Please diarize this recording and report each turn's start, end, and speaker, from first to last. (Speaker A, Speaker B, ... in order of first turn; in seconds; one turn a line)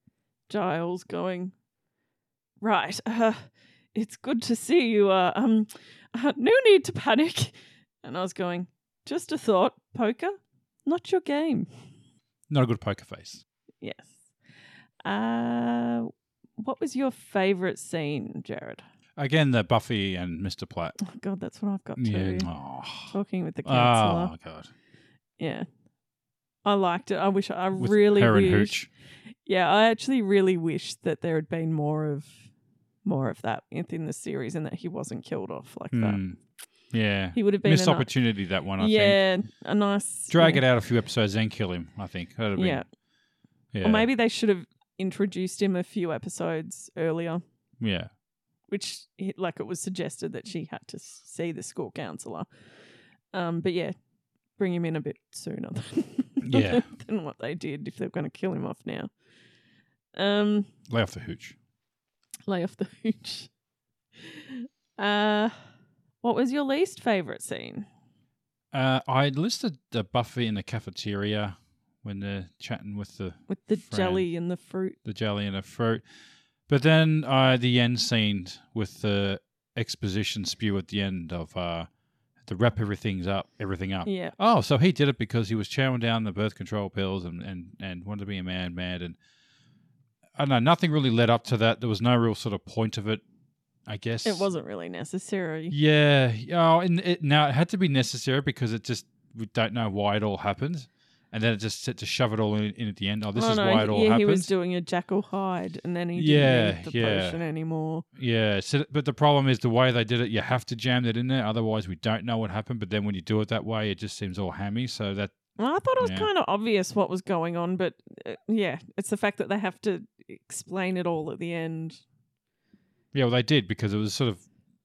Speaker A: 0.5-1.5
Speaker A: 2.6-11.7
Speaker B: 12.5-13.4
Speaker A: 13.8-14.2
Speaker A: 15.0-18.8
Speaker B: 19.2-21.0
Speaker A: 21.0-22.5
Speaker B: 22.0-24.7
Speaker A: 23.1-24.3
Speaker A: 25.4-25.7
Speaker A: 26.6-28.8
Speaker B: 27.8-28.9
Speaker A: 29.4-32.4
Speaker A: 33.0-36.2
Speaker B: 35.9-36.4
Speaker B: 36.9-39.2
Speaker A: 37.3-38.1
Speaker A: 38.8-40.6
Speaker B: 40.3-42.8
Speaker A: 42.5-42.8
Speaker B: 43.7-44.1
Speaker A: 43.8-47.4
Speaker B: 47.8-48.1
Speaker A: 48.7-52.5
Speaker A: 53.3-53.9
Speaker A: 54.6-59.1
Speaker B: 56.4-56.8
Speaker A: 60.1-60.7
Speaker B: 60.9-61.5
Speaker A: 62.5-63.5
Speaker A: 64.2-65.6
Speaker A: 66.2-67.9
Speaker B: 68.7-74.3
Speaker A: 73.5-75.0
Speaker B: 75.0-76.0
Speaker B: 76.7-81.9
Speaker B: 82.4-89.2
Speaker A: 84.0-84.3
Speaker B: 90.3-93.2
Speaker B: 93.9-94.5
Speaker A: 94.2-95.8
Speaker B: 95.7-104.5
Speaker A: 103.3-108.0
Speaker B: 106.2-107.4
Speaker B: 108.2-115.4
Speaker A: 115.6-122.0
Speaker B: 116.0-116.3
Speaker B: 123.1-124.4